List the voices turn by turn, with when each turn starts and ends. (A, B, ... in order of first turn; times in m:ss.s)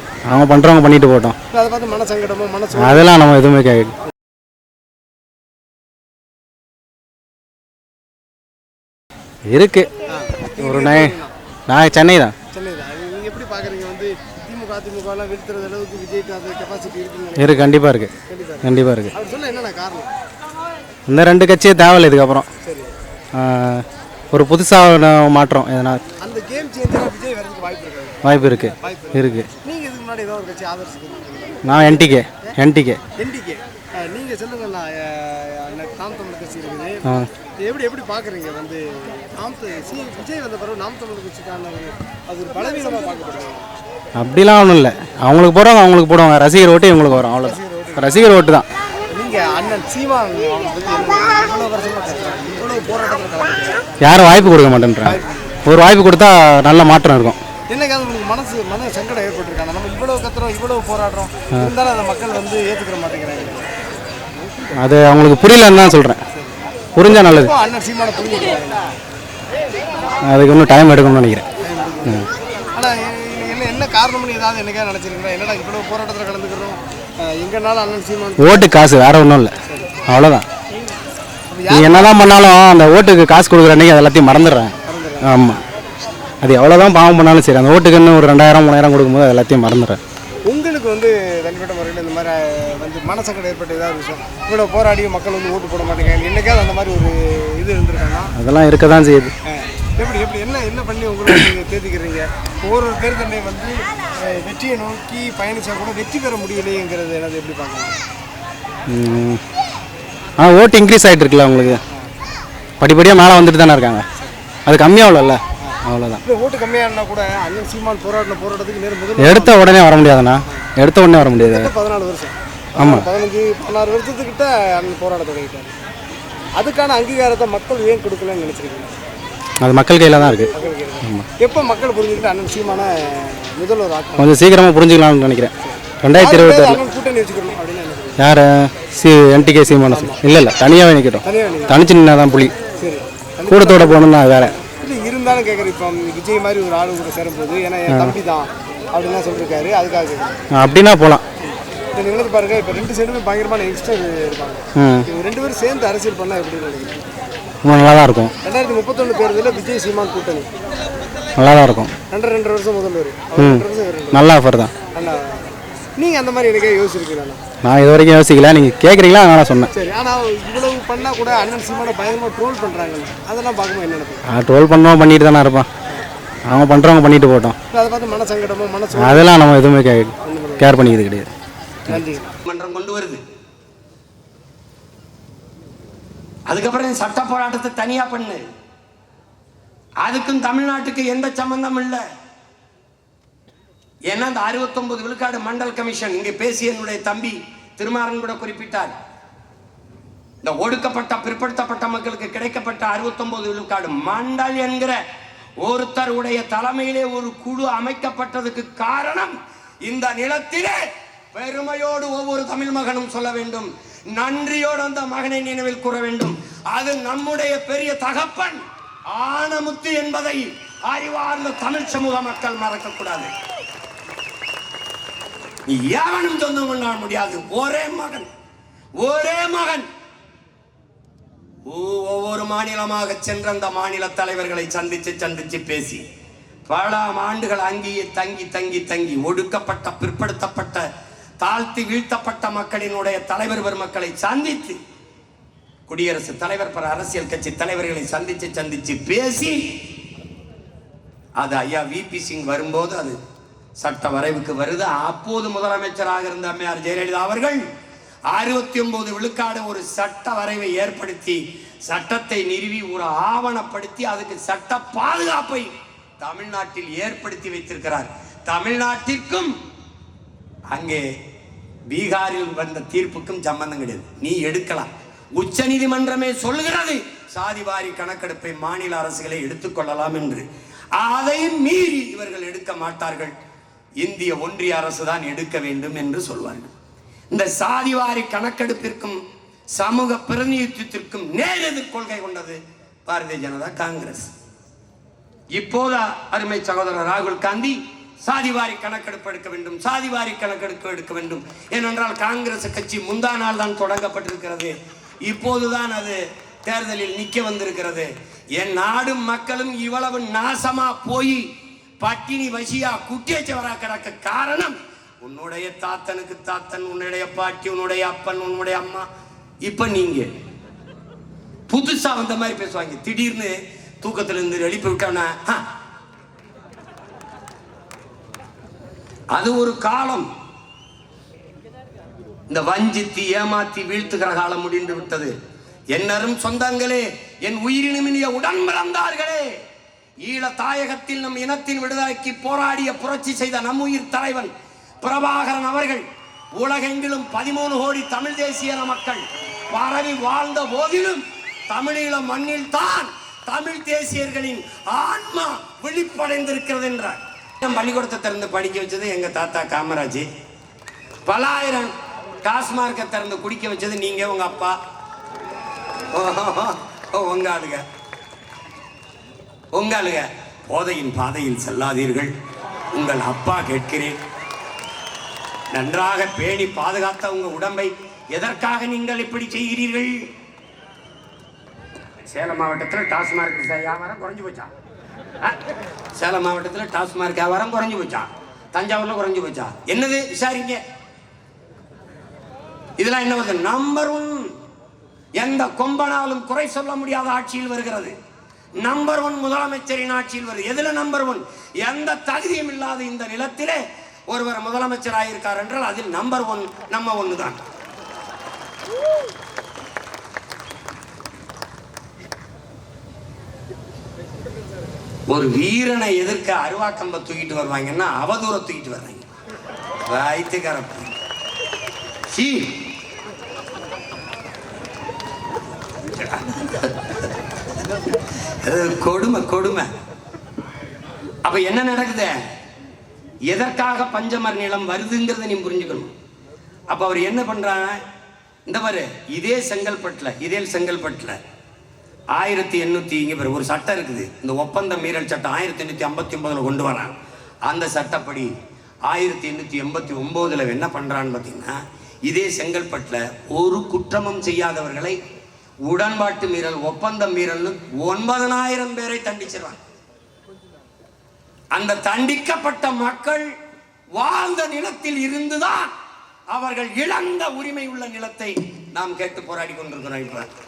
0:00.3-0:01.4 A
0:01.5-0:03.2 B
0:02.8-0:03.9 A
0:09.5-0:09.9 A
0:10.1-0:11.3 B
0:10.6-0:11.1 A
0:11.7-0:12.3 A
0:12.5-0:17.7 B
0:17.4-0:18.1 A
0:18.3-0:20.1 B
0:18.6-0:19.1 A
0:21.1-0:22.5 A
0:22.6-0:22.9 B
0:23.4-0:26.0 A
0:26.2-0:32.0 B
0:28.2-0:29.5 A
0:31.6-0:33.0 A
0:33.2-0:37.0 B
0:37.6-0:43.7 B
0:44.2-0:48.6 A
0:47.4-0:48.1 B
0:49.1-0:53.8 B
0:54.0-0:57.4 A
0:57.7-1:03.7 B
1:04.8-1:06.2 A
1:07.0-1:07.5 A
1:07.1-1:08.8 B
1:10.3-1:11.4 A
1:11.6-1:18.9 B
1:18.4-1:19.5 A
1:19.6-1:19.9 B
1:20.1-1:20.4 A
1:21.5-1:22.2 B
1:21.7-1:25.6 A
1:24.8-1:25.4 B
1:26.4-1:30.0 A
1:30.4-1:38.3 B
1:38.4-1:39.3 A
1:39.5-1:48.0 B
1:48.9-1:49.4 A
1:50.4-1:51.8 A
1:52.8-1:54.0 A
1:54.6-1:56.2 A
1:55.6-1:59.7 B
1:59.2-2:01.7 A
2:01.4-2:05.7 B
2:02.8-2:03.1 A
2:06.6-2:08.9 B
2:09.6-2:10.5 A
2:10.5-2:14.4 B
2:14.2-2:15.5 A
2:15.6-2:18.2 B
2:16.0-2:16.8 A
2:18.2-2:22.5 A
2:19.9-2:20.2 B
2:21.2-2:21.8 B
2:22.8-2:30.4 B
2:23.5-2:24.6 A
2:27.9-2:28.1 A
2:30.6-2:31.2 A
2:31.4-2:37.0 B
2:34.8-2:35.0 A
2:37.6-2:38.3 A
2:38.4-2:40.5 B
2:41.4-2:41.9 A
2:42.1-2:44.2 B
2:43.4-2:44.7 A
2:44.9-2:47.4 B
2:47.6-2:49.7 A
2:49.7-2:54.2 B
2:54.3-2:55.7 A
2:56.5-2:57.6 A
2:57.7-2:59.4 B
2:59.0-3:01.3 A
3:00.2-3:00.8 B
3:01.9-3:02.3 B
3:02.4-3:03.2 C
3:06.5-3:08.4 C
3:10.0-3:12.0 C
3:14.1-3:18.9 C
3:20.4-3:25.0 C
3:25.6-3:29.3 C
3:29.8-3:30.8 C
3:31.3-3:38.6 C
3:39.1-3:43.3 C
3:45.7-3:48.3 C
3:49.0-3:49.8 C
3:51.7-3:56.0 C
3:56.7-4:00.8 C
4:01.4-4:04.8 C
4:05.9-4:09.6 C
4:11.4-4:13.2 C
4:13.8-4:17.6 C
4:18.3-4:29.5 C
4:30.7-4:31.0 C
4:31.9-4:40.4 C
4:41.0-4:43.3 C
4:44.0-4:46.7 C
4:47.3-4:49.2 C
4:49.8-4:54.3 C
4:55.6-5:04.7 C
5:05.3-5:11.4 C
5:12.0-5:19.1 C
5:19.6-5:20.3 C
5:21.7-5:25.6 C
5:29.3-5:30.3 C
5:32.5-5:35.3 C
5:35.9-5:39.4 C
5:40.2-5:46.0 C
5:46.6-6:00.2 C
6:01.2-6:01.9 C
6:02.4-6:04.7 C
6:06.1-6:07.8 C
6:09.7-6:12.3 C
6:12.9-6:14.2 C
6:15.7-6:20.1 C
6:22.3-6:24.7 C
6:26.2-6:30.8 C
6:33.0-6:34.5 C
6:35.4-6:38.1 C
6:38.8-6:43.8 C
6:44.3-6:47.6 C
6:55.3-6:59.2 C
7:00.0-7:01.1 C
7:02.3-7:02.8 C
7:06.2-7:07.3 C
7:08.6-7:09.9 C
7:11.4-7:12.3 C
7:13.5-7:16.1 C
7:16.9-7:18.0 C
7:18.6-7:21.4 C
7:22.4-7:27.2 C
7:27.7-7:28.5 C
7:29.0-7:31.7 C
7:32.2-7:35.2 C
7:35.9-7:39.8 C
7:41.8-7:43.4 C
7:44.2-7:45.9 C
7:46.5-7:50.5 C